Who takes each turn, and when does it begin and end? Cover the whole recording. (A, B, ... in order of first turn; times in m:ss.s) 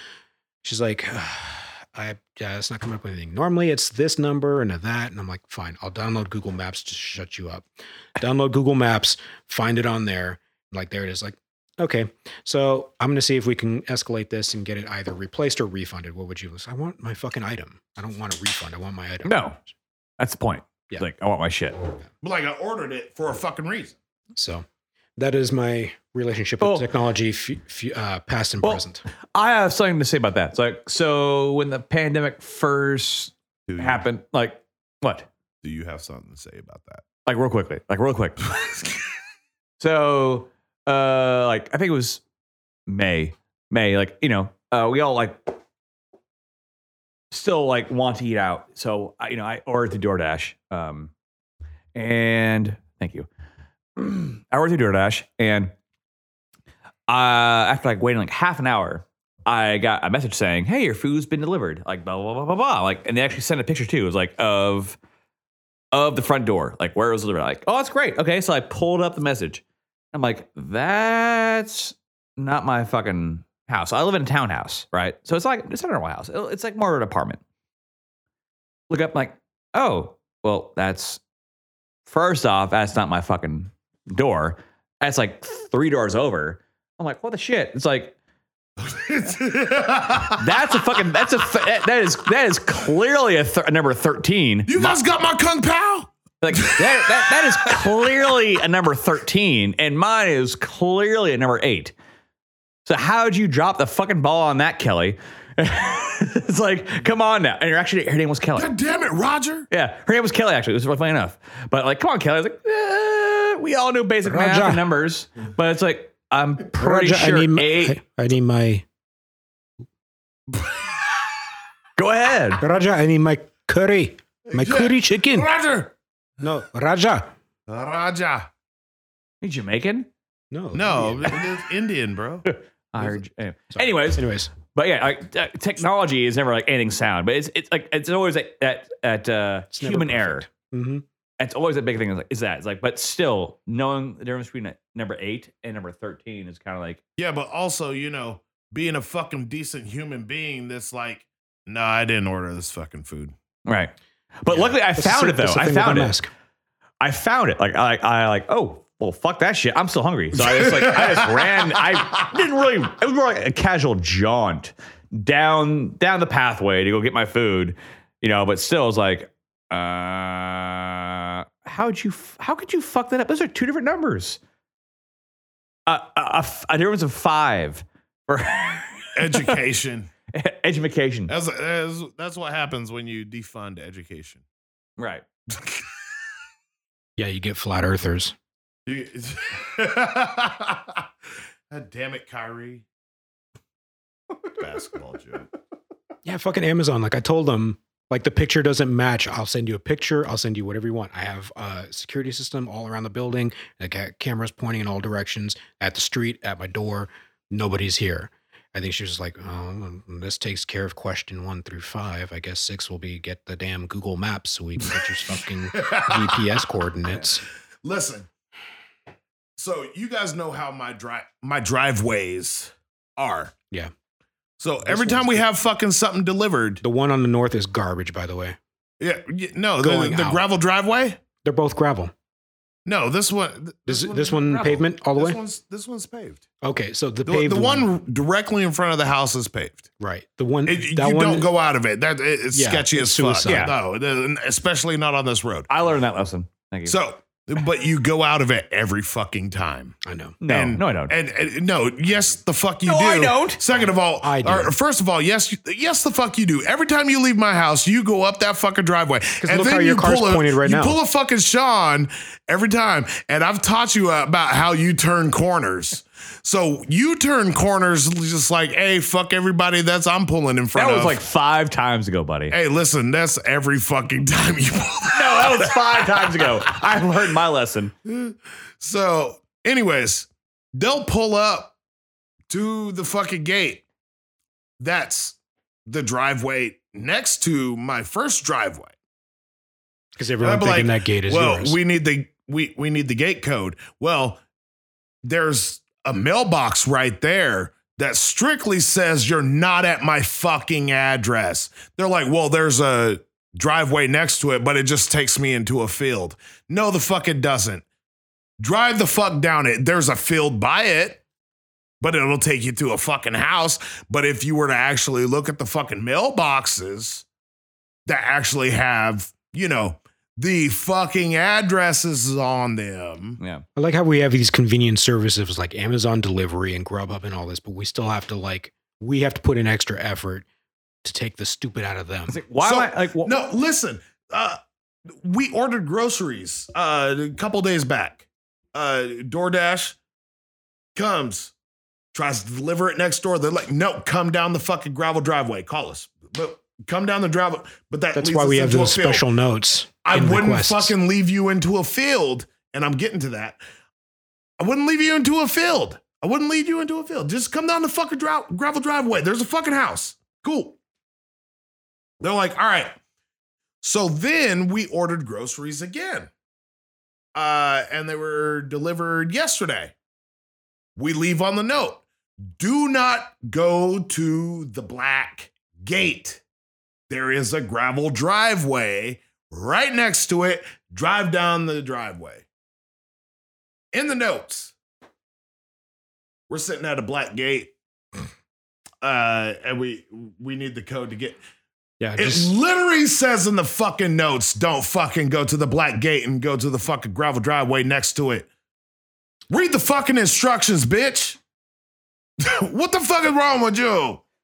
0:00.6-0:19.4 A
0:19.2-0:19.6 B
0:20.2-0:21.8 B
0:22.2-0:24.0 C
0:24.4-0:24.7 A
0:25.2-0:29.0 A
0:26.6-0:26.9 B
0:28.6-0:35.3 B
0:33.7-0:34.0 C
0:35.6-0:37.0 C
0:37.2-0:38.5 B
0:39.8-0:42.2 B
0:42.9-0:45.6 B
0:47.3-0:51.1 B
0:52.0-0:53.3 B
0:54.0-0:55.7 B
0:57.1-1:05.0 B
1:05.9-1:17.4 B
1:18.9-1:21.2 B
1:22.1-1:28.2 B
1:28.8-1:30.4 C
1:30.3-1:35.0 B
1:34.7-1:37.1 C
1:36.4-1:41.9 B
1:42.9-1:48.7 B
1:48.6-1:49.7 C
1:49.7-1:58.0 B
1:54.2-1:54.9 A
1:56.8-1:58.9 A
2:02.0-2:02.6 B
2:02.6-2:05.5 A
2:04.5-2:05.9 C
2:06.4-2:07.3 A
2:07.7-2:08.5 C
2:09.4-2:10.1 B
2:10.5-2:11.4 A
2:10.7-2:12.5 C
2:12.5-2:20.5 B
2:13.7-2:14.5 A
2:19.7-2:21.0 A
2:21.4-2:27.0 B
2:27.2-2:33.3 C
2:33.7-2:36.2 B
2:34.5-2:36.3 A
2:37.0-2:54.4 B
2:40.3-2:42.3 C
2:55.9-2:59.6 B
2:59.2-3:00.1 C
3:00.3-3:01.3 B
3:01.3-3:04.4 C
3:05.0-3:05.2 B
3:05.6-3:05.8 C
3:07.2-3:08.4 A
3:08.9-3:11.0 C
3:11.7-3:12.8 C
3:14.5-3:15.5 C
3:16.2-3:37.4 A
3:35.7-3:36.4 C
3:37.8-3:38.3 C
3:39.6-3:43.5 C
3:44.6-3:46.8 C
3:44.8-3:45.4 A
3:46.8-3:48.6 A
3:49.0-3:51.2 C
3:49.8-3:50.4 A
3:51.4-3:52.1 A
3:52.9-3:56.5 C
3:53.9-3:55.4 A
3:56.6-3:57.9 A
3:57.3-3:59.9 C
4:00.0-4:01.5 A
4:00.7-4:05.7 C
4:02.5-4:03.7 A
4:03.4-4:03.7 B
4:05.7-4:07.0 B
4:06.9-4:31.2 C
4:10.0-4:10.4 A
4:10.4-4:11.1 B
4:12.9-4:13.6 B
4:13.7-4:14.7 A
4:19.4-4:21.0 A
4:30.8-4:32.6 B
4:32.5-4:36.8 C
4:35.1-4:37.9 B
4:38.0-4:41.8 C
4:42.5-4:43.8 C
4:44.8-4:48.9 C
4:50.2-4:51.8 A
4:50.4-4:54.4 C
4:55.2-5:07.8 C
5:08.6-5:11.2 C
5:12.0-5:17.2 C
5:18.1-5:23.4 C
5:23.4-5:23.6 B
5:23.8-5:30.5 A
5:31.0-5:32.4 A
5:32.3-5:33.4 B
5:32.6-5:34.6 C
5:35.1-5:40.0 C
5:41.0-5:41.5 C
5:42.1-5:49.3 C
5:48.2-5:50.9 A
5:50.0-5:53.6 C
5:54.6-6:00.8 C
6:02.2-6:03.0 C
6:03.8-6:06.3 C
6:07.4-6:09.9 C
6:11.0-6:12.0 C
6:12.6-6:16.4 C
6:17.1-6:22.5 C
6:23.9-6:24.8 C
6:26.5-6:27.7 C
6:29.0-6:31.4 C
6:32.0-6:32.5 A
6:32.2-6:38.5 C
6:39.5-6:41.4 C
6:42.4-6:44.2 C